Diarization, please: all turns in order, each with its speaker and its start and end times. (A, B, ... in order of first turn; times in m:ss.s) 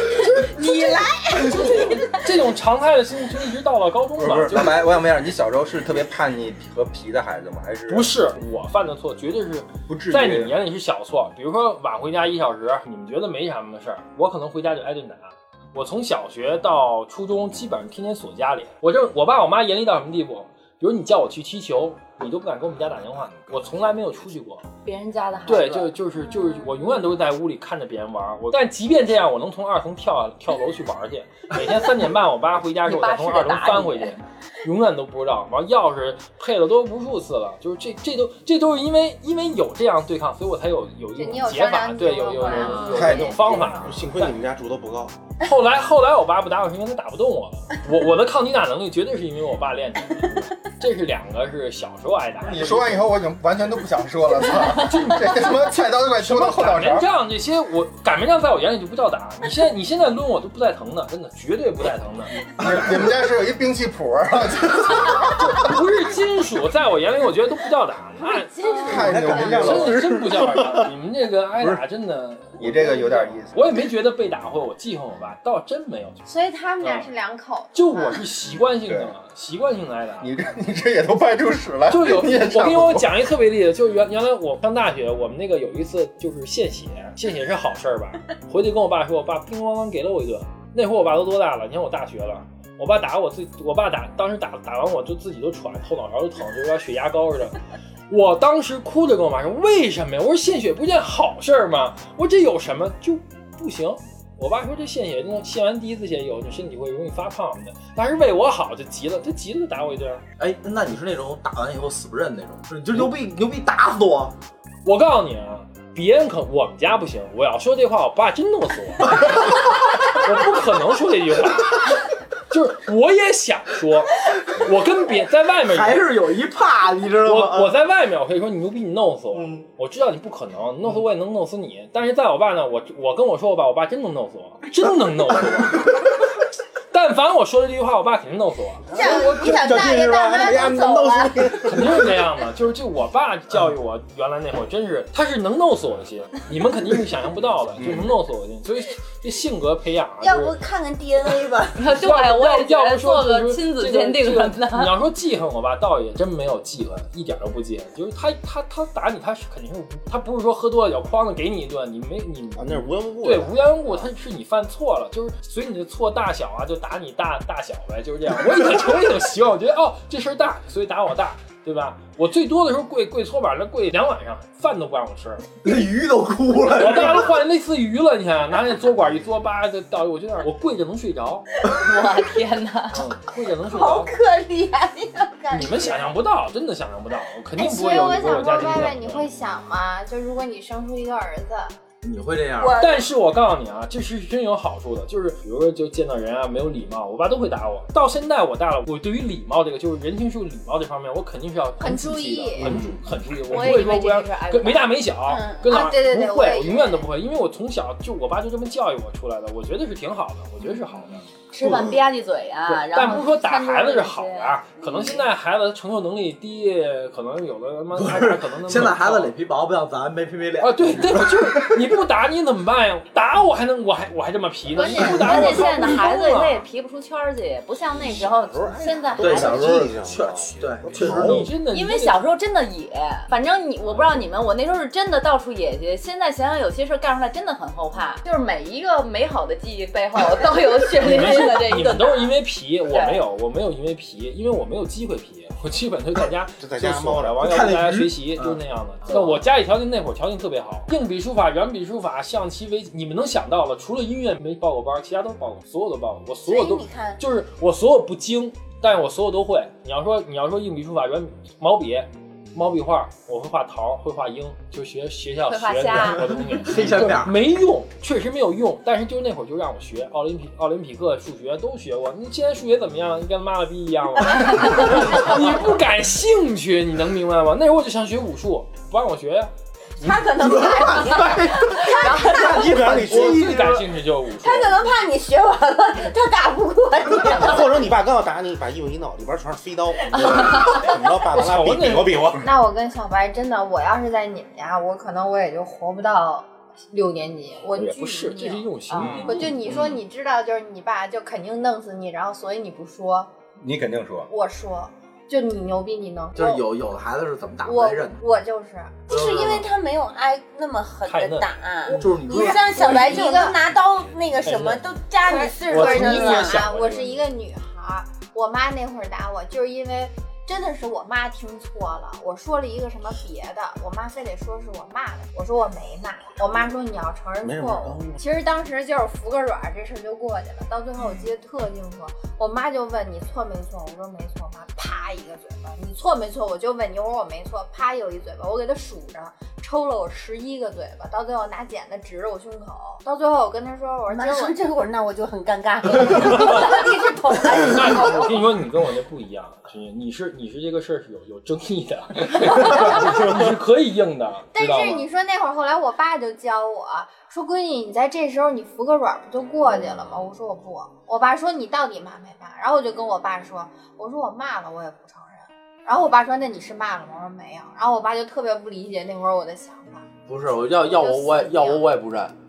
0:00.3-0:01.7 A
0:00.5-0:01.0 B
0:01.9-0:04.8 C
0:04.2-0:08.1 D
0:07.9-0:24.6 C
0:09.9-0:10.6 D
0:22.9-0:24.1 D
0:24.8-0:25.9 B
0:25.5-0:44.3 C
0:32.9-0:34.1 B
0:41.2-0:44.0 E
0:42.9-0:43.5 D
0:43.8-0:45.2 F
0:45.4-0:53.1 C
0:52.4-0:57.1 D
0:54.6-0:55.5 C
0:56.2-1:02.5 C
1:02.6-1:05.7 D
1:05.4-1:16.2 C
1:08.5-1:09.4 E
1:08.8-1:10.0 D
1:08.9-1:10.9 F
1:12.6-1:13.9 D
1:16.2-1:18.2 E
1:16.8-1:17.1 C
1:17.7-1:20.3 C
1:18.9-1:19.1 D
1:20.2-1:23.1 D
1:21.9-1:37.6 C
1:38.1-1:50.2 C
1:50.4-1:54.4 G
1:54.8-2:06.0 C
2:05.7-2:07.7 G
2:07.2-2:16.0 C
2:09.3-2:09.6 G
2:16.9-2:19.1 C
2:18.9-2:21.6 A
2:18.9-2:22.1 F
2:21.6-2:30.6 C
2:27.8-2:28.1 F
2:30.2-2:31.8 A
2:31.8-2:35.0 B
2:31.8-2:55.5 C
2:42.6-2:43.8 F
2:55.6-2:57.4 G
2:56.7-3:01.5 C
3:01.7-3:03.1 B
3:02.9-3:04.1 C
3:03.6-3:06.1 A
3:05.5-3:09.3 C
3:07.6-3:11.8 E
3:12.0-3:12.8 G
3:12.6-3:13.1 A
3:12.8-3:31.3 C
3:21.8-3:22.8 E
3:22.6-3:22.9 G
3:23.4-3:24.9 B
3:25.2-3:25.9 A
3:25.6-3:27.1 E
3:31.5-3:35.3 B
3:31.6-3:31.9 G
3:32.6-3:39.4 C
3:37.9-3:41.8 G
3:40.6-3:46.6 C
3:44.8-3:49.9 B
3:47.9-3:51.5 F
3:49.2-3:51.5 G
3:51.0-3:52.2 C
3:51.7-4:02.3 B
4:01.0-4:39.5 C
4:02.9-4:03.2 B
4:06.6-4:07.5 F
4:07.4-4:09.4 G
4:16.4-4:17.2 A
4:25.5-4:26.4 B
4:26.5-4:27.4 G
4:40.0-4:42.8 A
4:40.4-4:43.9 G
4:42.3-4:43.5 F
4:43.0-4:44.9 C
4:44.4-4:47.9 A
4:47.2-4:52.5 F
4:50.2-4:52.4 C
4:52.4-4:58.6 E
4:57.8-4:59.5 C
4:59.1-5:00.0 G
4:59.2-5:03.3 E
5:03.6-5:04.3 D
5:04.3-5:06.6 E
5:06.4-5:08.2 G
5:07.6-5:09.1 E
5:09.1-5:09.7 G
5:09.1-5:16.6 A
5:11.0-5:12.2 C
5:11.9-5:13.1 G
5:12.3-5:13.6 E
5:14.4-5:14.8 G
5:15.2-5:44.6 E
5:15.7-5:17.0 C
5:16.6-5:17.1 D
5:27.4-5:28.2 F
5:44.1-5:48.4 A
5:47.6-5:55.1 C
5:54.5-6:10.1 E
6:10.3-6:12.3 G
6:10.8-6:11.8 E